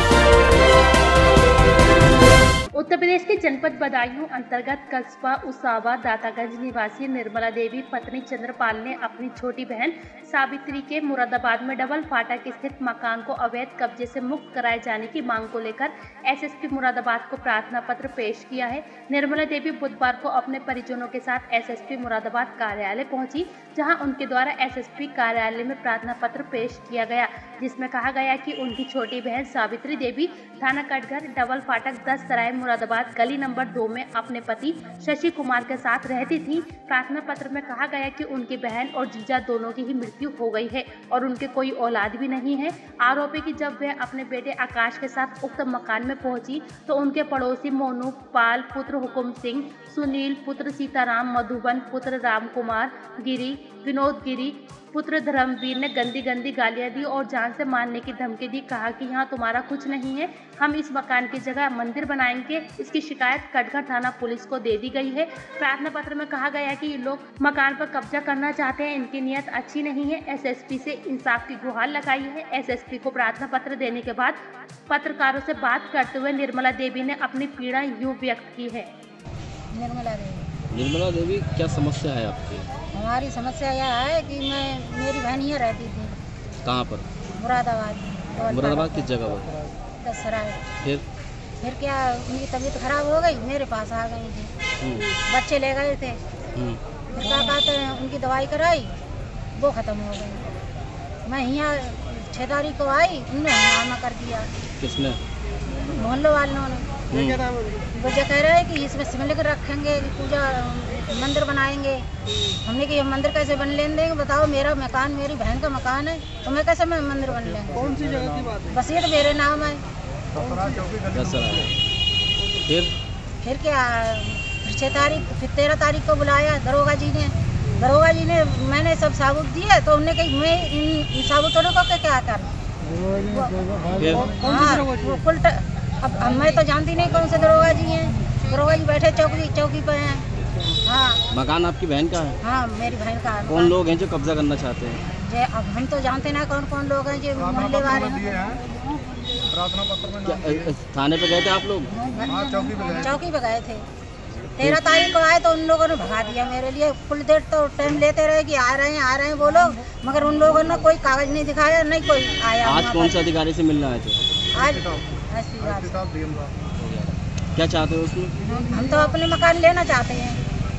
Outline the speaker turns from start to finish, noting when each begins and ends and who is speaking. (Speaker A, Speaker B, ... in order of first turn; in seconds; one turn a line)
Speaker A: 2.8-78.9
Speaker B: 79.7-80.5
Speaker C: 80.7-82.7
Speaker B: 82.9-86.2
Speaker C: 86.6-87.1
Speaker B: 87.4-89.1
Speaker C: 88.4-89.5
Speaker B: 90.0-90.6
Speaker B: 91.6-94.5
Speaker C: 94.8-95.1
Speaker B: 95.2-96.2
Speaker B: 97.1-99.0
Speaker B: 99.6-100.5
Speaker B: 101.3-104.5
Speaker C: 104.8-105.2
Speaker B: 105.8-106.9
Speaker C: 107.1-107.5
Speaker B: 107.9-112.0
Speaker B: 112.6-117.9
Speaker D: 117.8-118.5
Speaker B: 118.6-119.8
Speaker D: 120.3-121.5
Speaker C: 121.1-121.7
Speaker C: 122.7-123.0
Speaker B: 123.4-132.5
Speaker B: 133.2-133.7
Speaker C: 133.9-134.3
Speaker B: 134.3-140.2
Speaker B: 140.8-141.2
Speaker C: 141.3-142.4
Speaker B: 142.4-143.8
Speaker C: 143.5-145.0
Speaker B: 145.1-148.6
Speaker D: 147.5-148.6
Speaker D: 149.5-150.7
Speaker C: 150.2-151.9
Speaker B: 152.1-152.4
Speaker D: 152.3-153.1
Speaker B: 153.0-153.8
Speaker B: 154.6-163.2
Speaker C: 162.6-164.2
Speaker B: 164.5-166.0
Speaker D: 166.0-166.5
Speaker C: 166.8-168.3
Speaker B: 168.4-170.4